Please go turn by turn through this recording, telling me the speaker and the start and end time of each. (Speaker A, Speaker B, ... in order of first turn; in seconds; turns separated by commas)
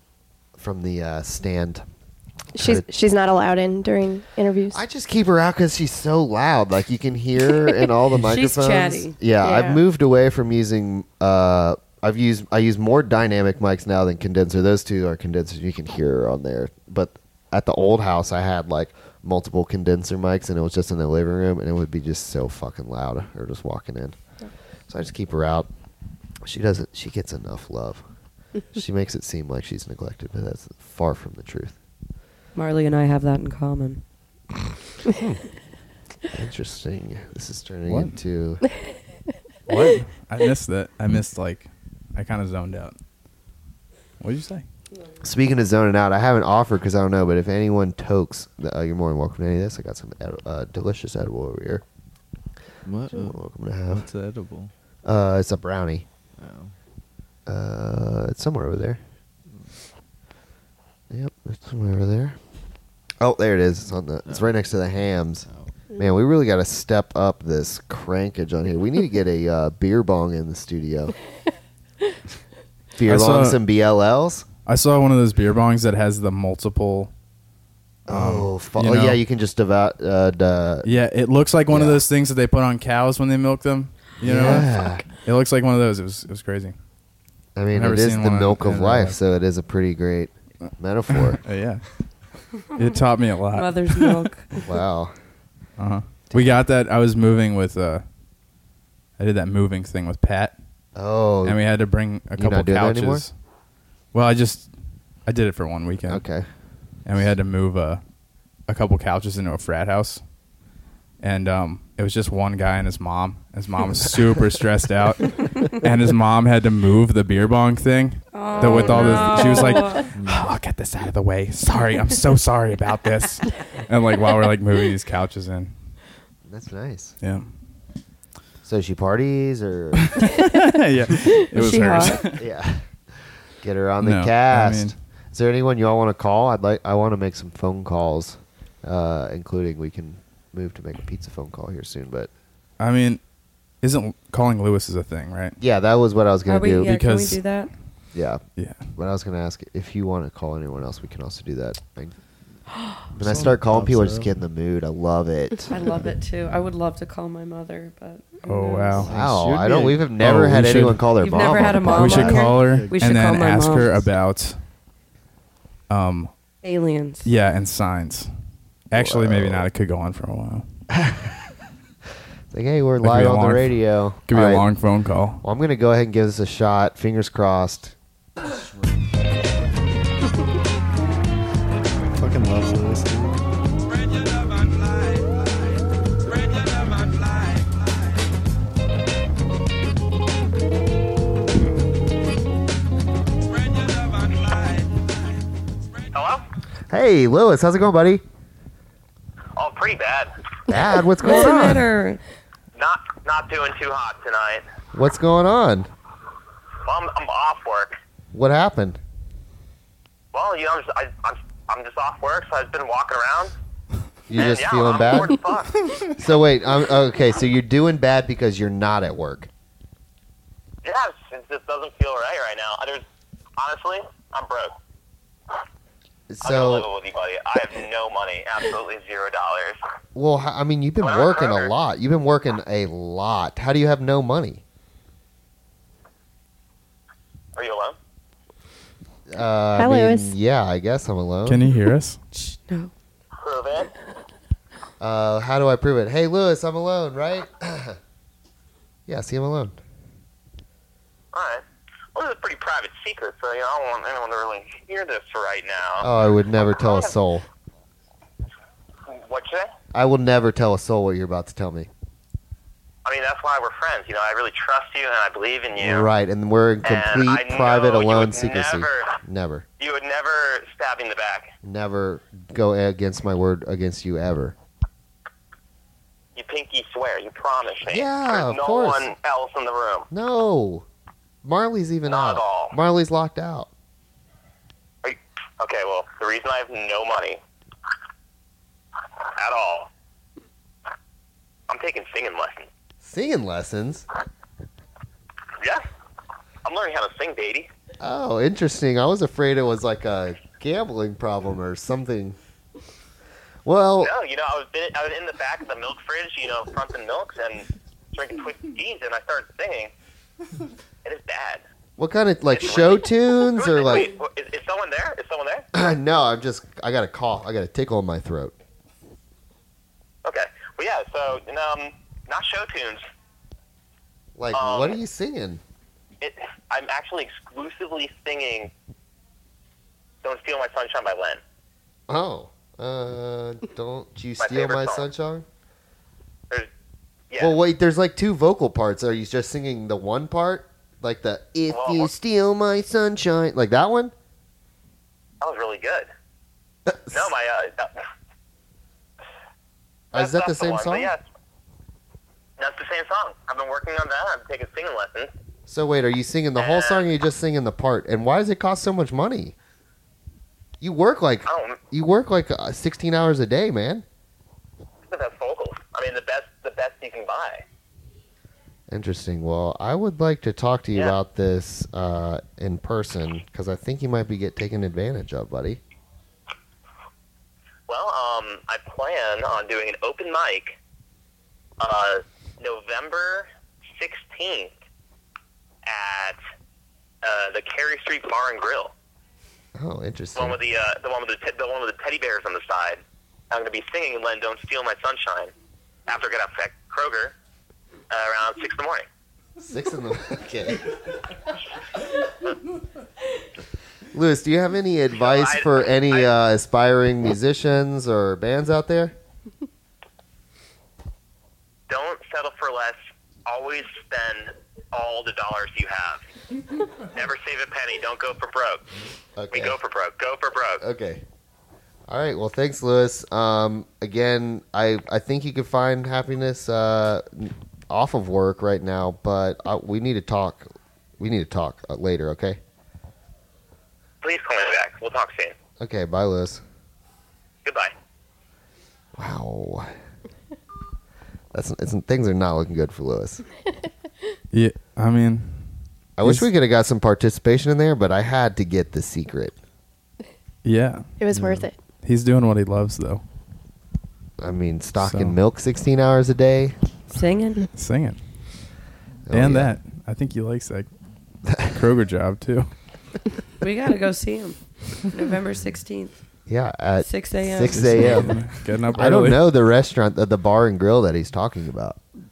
Speaker A: 0.6-1.8, Speaker B: 2.5-4.8, Speaker A: 2.6-2.9, Speaker A: 4.7-24.2, Speaker C: 8.2-9.2, Speaker B: 9.4-9.8, Speaker A: 24.9-25.7, Speaker A: 26.4-28.0, Speaker A: 28.7-31.8, Speaker C: 32.5-34.0, Speaker A: 35.1-35.5, Speaker A: 36.3-38.6, Speaker D: 37.9-38.2, Speaker D: 39.7-43.0, Speaker D: 44.2-44.6, Speaker A: 45.2-51.8, Speaker E: 52.9-54.7, Speaker A: 53.1-54.1, Speaker A: 55.0-56.1, Speaker E: 56.4-56.7, Speaker A: 57.5-59.0, Speaker A: 61.1-62.4, Speaker A: 63.2-71.1, Speaker E: 64.2-64.6, Speaker A: 73.0-74.5, Speaker D: 73.0-73.6, Speaker D: 74.7-77.1, Speaker A: 78.1-80.9, Speaker D: 78.1-79.2, Speaker D: 80.8-86.7, Speaker A: 81.7-82.0, Speaker A: 84.2-85.0, Speaker A: 87.6-91.4, Speaker D: 87.7-89.2, Speaker D: 91.1-91.8, Speaker D: 92.8-94.3, Speaker C: 93.5-94.6, Speaker A: 94.6-95.1, Speaker D: 95.8-98.0, Speaker A: 96.3-96.6, Speaker D: 99.2-100.5, Speaker A: 101.0-101.6, Speaker D: 101.5-103.3, Speaker A: 102.3-103.2, Speaker D: 104.1-104.7, Speaker D: 105.2-106.2, Speaker A: 106.1-106.5, Speaker D: 107.0-108.0, Speaker D: 108.7-110.2, Speaker D: 111.2-125.7, Speaker C: 118.3-120.1, Speaker A: 118.6-119.3, Speaker E: 120.2-120.5, Speaker A: 126.5-127.2, Speaker D: 127.2-127.5, Speaker A: 128.6-130.3, Speaker D: 130.1-132.4, Speaker C: 131.5-132.2, Speaker A: 132.3-132.8, Speaker A: 133.6-142.3, Speaker D: 134.0-134.9, Speaker D: 142.8-143.2, Speaker D: 143.8-145.6, Speaker A: 145.6-146.9, Speaker C: 146.5-147.7, Speaker D: 146.8-147.4, Speaker A: 148.1-148.4, Speaker D: 148.6-148.8, Speaker A: 148.9-152.2, Speaker A: 153.1-155.8, Speaker E: 153.2-154.3, Speaker C: 155.7-159.1, Speaker D: 158.4-159.2, Speaker A: 158.9-162.4, Speaker E: 159.1-160.0, Speaker D: 160.2-164.6, Speaker C: 161.2-163.9, Speaker E: 162.4-164.1, Speaker D: 165.9-166.3, Speaker C: 166.6-167.3, Speaker D: 167.2-168.3, Speaker D: 168.9-170.7, Speaker A: 168.9-169.7, Speaker A: 170.9-171.3, Speaker A: 172.5-174.7, Speaker D: 173.0-175.4, Speaker A: 175.4-177.9, Speaker E: 182.1-183.5, Speaker F: 196.1-196.4, Speaker A: 196.9-198.2, Speaker F: 199.6-200.3, Speaker A: 200.7-201.8, Speaker C: 201.2-202.2, Speaker F: 202.8-204.7, Speaker A: 204.9-205.9, Speaker F: 206.8-208.0, Speaker A: 208.3-209.0, Speaker F: 210.3-213.5, Speaker A: 214.3-215.4, Speaker F: 214.3-215.8, Speaker D: 215.8-216.1, Speaker A: 216.2-219.5, Speaker F: 220.8-223.0, Speaker F: 223.6-224.7, Speaker A: 226.3-226.9, Speaker F: 226.4-229.8, Speaker A: 230.2-234.6, Speaker F: 231.0-231.7, Speaker F: 237.6-238.0, Speaker A: 239.3-241.7, Speaker B: 239.8-240.3, Speaker D: 241.5-242.2, Speaker C: 242.3-242.9, Speaker F: 243.4-243.9, Speaker A: 245.0-248.0, Speaker A: 249.1-249.8, Speaker F: 251.3-251.6, Speaker F: 252.2-256.1, Speaker A: 256.0-257.4, Speaker F: 256.7-257.1, Speaker F: 259.1-259.7, Speaker A: 259.9-261.9, Speaker F: 263.1-266.1, Speaker A: 265.8-269.6, Speaker F: 266.9-269.2, Speaker F: 269.8-271.5, Speaker A: 271.6-274.6, Speaker F: 276.4-280.1, Speaker A: 277.9-279.1, Speaker A: 280.1-280.9, Speaker A: 281.4-283.7, Speaker F: 282.1-282.8, Speaker F: 285.0-287.4, Speaker F: 289.4-289.9, Speaker F: 291.7-292.7, Speaker A: 293.0-294.1, Speaker F: 296.6-297.7, Speaker A: 298.0-302.4, Speaker A: 303.6-304.1, Speaker F: 304.0-309.9, Speaker F: 311.0-311.6, Speaker A: 312.0-314.1, Speaker F: 312.5-315.7, Speaker A: 315.7-318.5, Speaker F: 320.2-323.0, Speaker A: 324.4-325.6, Speaker F: 324.5-325.0, Speaker F: 326.2-328.7, Speaker F: 330.2-331.4, Speaker A: 332.1-335.4, Speaker F: 334.4-335.1, Speaker A: 337.4-344.1, Speaker F: 341.7-342.1, Speaker F: 345.4-346.1, Speaker A: 346.9-347.1, Speaker F: 347.1-348.0, Speaker F: 350.1-351.2, Speaker A: 350.1-351.1, Speaker F: 352.6-355.3, Speaker A: 355.7-359.6, Speaker F: 356.6-357.1, Speaker A: 360.8-364.0, Speaker F: 361.5-361.8, Speaker F: 365.1-367.6, Speaker A: 368.9-375.8, Speaker F: 377.9-380.8, Speaker F: 381.8-384.7, Speaker F: 385.9-386.4, Speaker F: 387.2-388.9, Speaker A: 389.8-390.6, Speaker F: 390.4-395.5, Speaker F: 396.1-397.3, Speaker F: 398.1-399.1, Speaker A: 399.6-400.9, Speaker A: 404.1-409.1, Speaker F: 405.1-406.3, Speaker F: 411.9-416.2, Speaker F: 417.1-418.8, Speaker A: 419.4-419.8, Speaker F: 419.5-420.8, Speaker A: 420.8-421.2, Speaker A: 422.1-432.6, Speaker F: 434.2-435.5, Speaker A: 435.8-436.6, Speaker F: 437.6-437.9, Speaker A: 439.2-439.9, Speaker A: 441.5-443.4, Speaker D: 444.5-446.5, Speaker A: 446.2-449.6, Speaker D: 450.6-451.1, Speaker B: 451.2-451.8, Speaker E: 451.3-451.7, Speaker D: 452.0-453.2, Speaker A: 454.4-456.8, Speaker D: 455.0-455.4, Speaker C: 457.1-457.7, Speaker D: 457.7-458.2, Speaker A: 459.3-459.8, Speaker D: 459.3-460.9, Speaker A: 461.5-461.8, Speaker D: 461.7-462.7, Speaker C: 463.6-466.2, Speaker A: 466.5-468.4, Speaker C: 467.0-468.0, Speaker D: 467.7-469.5, Speaker E: 467.9-468.5, Speaker A: 468.9-472.0